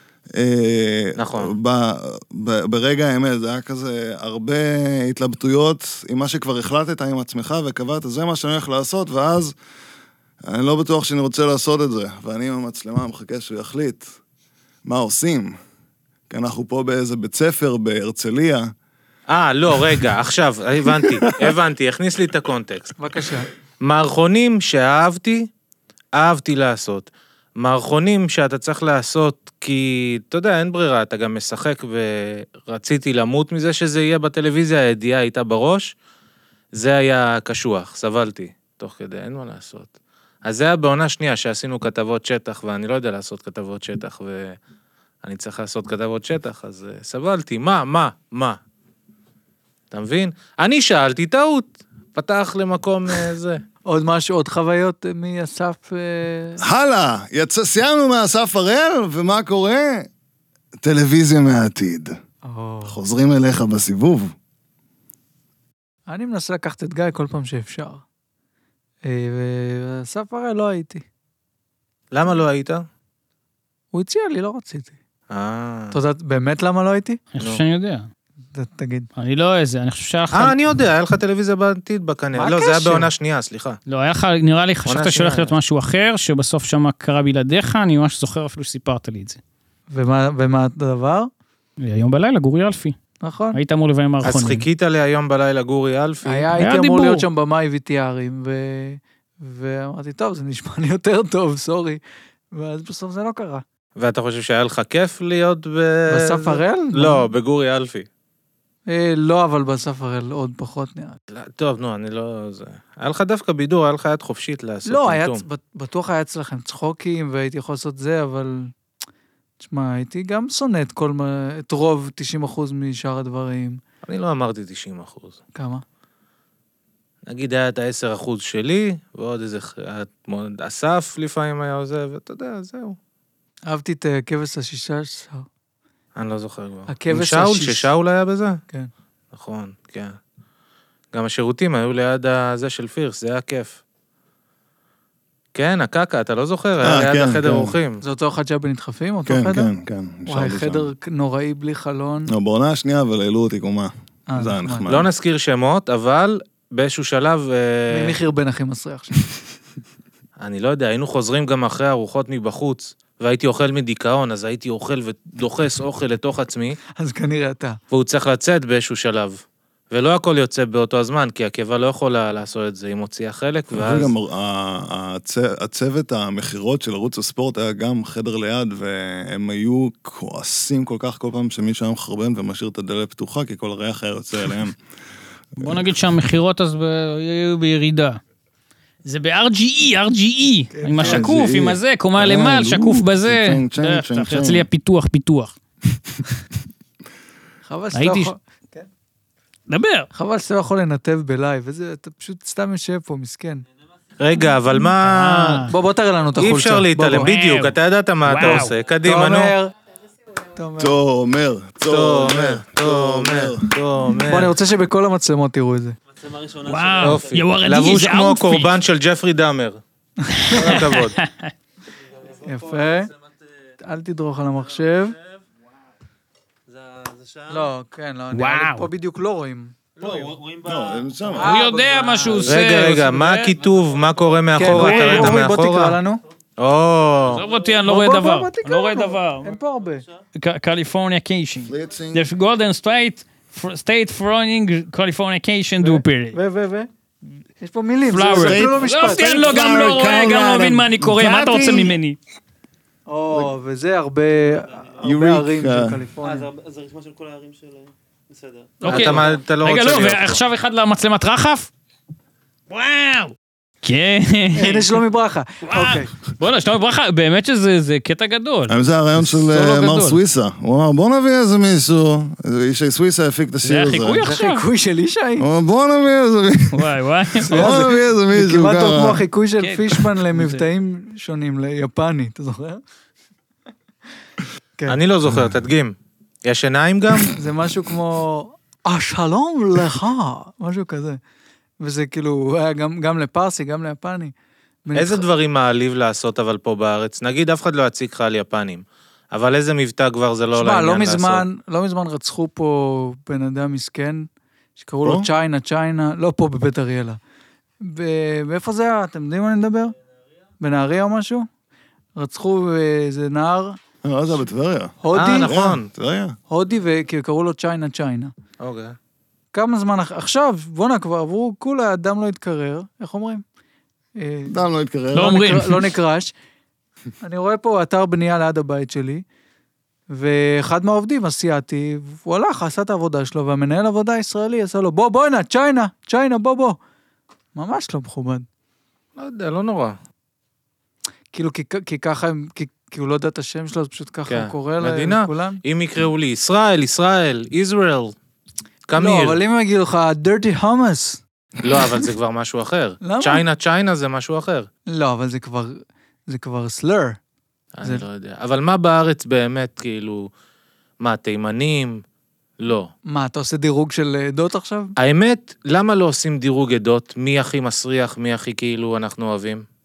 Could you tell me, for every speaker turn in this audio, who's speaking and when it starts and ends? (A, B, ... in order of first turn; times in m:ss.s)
0:00.3-0:09.5 A
0:01.2-0:01.5 B
0:10.4-0:14.2 A
0:14.8-0:15.6 A
0:16.3-0:18.7 A
0:19.3-0:22.9 B
0:20.9-0:21.5 A
0:23.0-0:23.5 C
0:23.8-0:25.5 B
0:26.2-0:35.9 B
0:36.7-0:39.9 B
0:40.4-0:44.6 B
0:45.2-0:48.6 B
0:49.9-0:53.6 B
0:53.8-0:56.6 C
0:56.6-1:00.1 A
1:00.8-1:02.1 A
1:02.4-1:03.0 C
1:02.8-1:04.3 A
1:06.1-1:08.0 C
1:09.0-1:11.0 C
1:12.1-1:12.8 B
1:13.9-1:15.0 C
1:15.3-1:16.0 B
1:15.9-1:17.2 C
1:17.3-1:18.1 D
1:18.5-1:19.1 C
1:19.2-1:20.6 D
1:20.3-1:23.8 B
1:22.3-1:23.1 C
1:23.9-1:29.4 D
1:24.9-1:25.5 B
1:29.9-1:31.3 C
1:31.8-1:33.0 D
1:33.2-1:33.6 C
1:33.5-1:34.6 D
1:34.2-1:36.5 B
1:36.2-1:42.0 C
1:36.6-1:37.2 D
1:42.5-1:43.6 C
1:44.0-1:48.1 B
1:46.1-1:47.2 C
1:48.9-1:51.2 C
1:51.3-1:55.4 B
1:54.8-1:58.7 C
1:59.6-2:03.8 C
2:04.0-2:05.4 B
2:05.5-2:05.8 C
2:07.3-2:13.0 B
2:13.7-2:15.5 C
2:16.2-2:18.6 B
2:16.9-2:17.9 C
2:19.3-2:20.2 B
2:21.1-2:23.8 B
2:25.5-2:28.0 B
2:26.8-2:27.7 A
2:28.0-2:29.7 C
2:29.2-2:30.9 A
2:30.2-2:32.3 C
2:32.3-2:35.1 A
2:34.3-2:34.9 C
2:34.9-2:38.1 B
2:37.9-2:39.1 C
2:40.4-2:46.8 B
2:47.0-2:47.8 C
2:47.9-2:54.1 B
2:53.7-3:04.8 A
3:05.6-3:08.2 D
3:09.0-3:15.5 D
3:10.7-3:11.3 C
3:11.0-3:14.6 A
3:17.6-3:18.9 C
3:17.9-3:18.3 D
3:19.7-3:20.1 D
3:20.1-3:23.6 C
3:24.2-3:25.7 B
3:25.0-3:25.7 D
3:25.7-3:27.3 C
3:26.4-3:29.5 B
3:27.2-3:28.7 D
3:28.4-3:29.7 C
3:30.6-3:31.0 C
3:30.8-3:33.8 A
3:31.8-3:34.5 B
3:34.2-3:36.0 C
3:36.1-3:37.6 E
3:36.6-3:38.7 D
3:37.0-3:39.8 B
3:40.2-3:40.6 C
3:40.4-3:41.5 D
3:40.5-3:41.2 B
3:42.1-3:43.1 E
3:42.4-3:43.1 C
3:43.8-3:45.2 C
3:46.7-3:47.7 E
3:47.5-3:50.3 C
3:48.3-3:48.9 D
3:50.0-3:52.6 E
3:50.6-3:51.5 A
3:51.4-3:52.4 C
3:51.4-3:53.6 D
3:52.4-3:56.0 B
3:53.6-3:54.4 E
3:54.6-3:56.2 C
3:54.7-3:55.4 D
3:56.6-3:57.4 B
3:57.3-3:59.5 D
3:57.5-3:57.7 E
3:57.8-4:00.0 C
4:00.3-4:06.4 D
4:01.6-4:02.2 A
4:05.8-4:06.9 C
4:07.6-4:09.5 C
4:08.1-4:12.2 D
4:08.4-4:11.9 A
4:11.5-4:11.8 C
4:13.1-4:16.5 C
4:14.4-4:15.0 E
4:15.0-4:16.0 A
4:16.2-4:19.4 E
4:18.8-4:21.7 D
4:18.8-4:20.4 B
4:22.7-4:25.0 D
4:24.5-4:26.1 C
4:25.6-4:28.7 D
4:28.7-4:34.3 A
4:29.3-4:30.2 D
4:33.6-4:34.6 D
4:34.2-4:35.4 C
4:35.4-4:39.2 A
4:36.7-4:37.8 D
4:37.4-4:42.8 C
4:39.6-4:40.6 D
4:44.9-4:47.4 B
4:47.3-4:51.2 C
4:51.8-4:54.3 C
4:54.8-4:55.2 C
4:54.9-5:01.4 B
5:00.6-5:07.2 C
5:05.0-5:05.3 A
5:07.8-5:09.9 C
5:10.6-5:11.5 C
5:12.2-5:13.8 C
5:14.0-5:16.4 A
5:15.0-5:15.5 C
5:15.1-5:15.9 B
5:16.5-5:18.3 C
5:18.6-5:18.9 B
5:19.5-5:23.4 C
5:24.2-5:24.6 C
5:24.5-5:25.4 A
5:25.1-5:25.9 D
5:25.2-5:26.3 C
5:27.2-5:29.2 C
5:30.1-5:36.8 C
5:37.5-5:38.4 C
5:39.2-5:40.0 B
5:41.3-5:45.6 C
5:44.3-5:48.1 B
5:48.9-5:49.4 B
5:49.0-5:51.2 C
5:51.6-5:54.7 B
5:53.0-5:53.4 C
5:54.9-5:57.2 C
5:57.8-6:00.3 B
6:01.0-6:02.0 B
6:02.6-6:02.9 B
6:03.1-6:04.9 C
6:05.0-6:09.6 B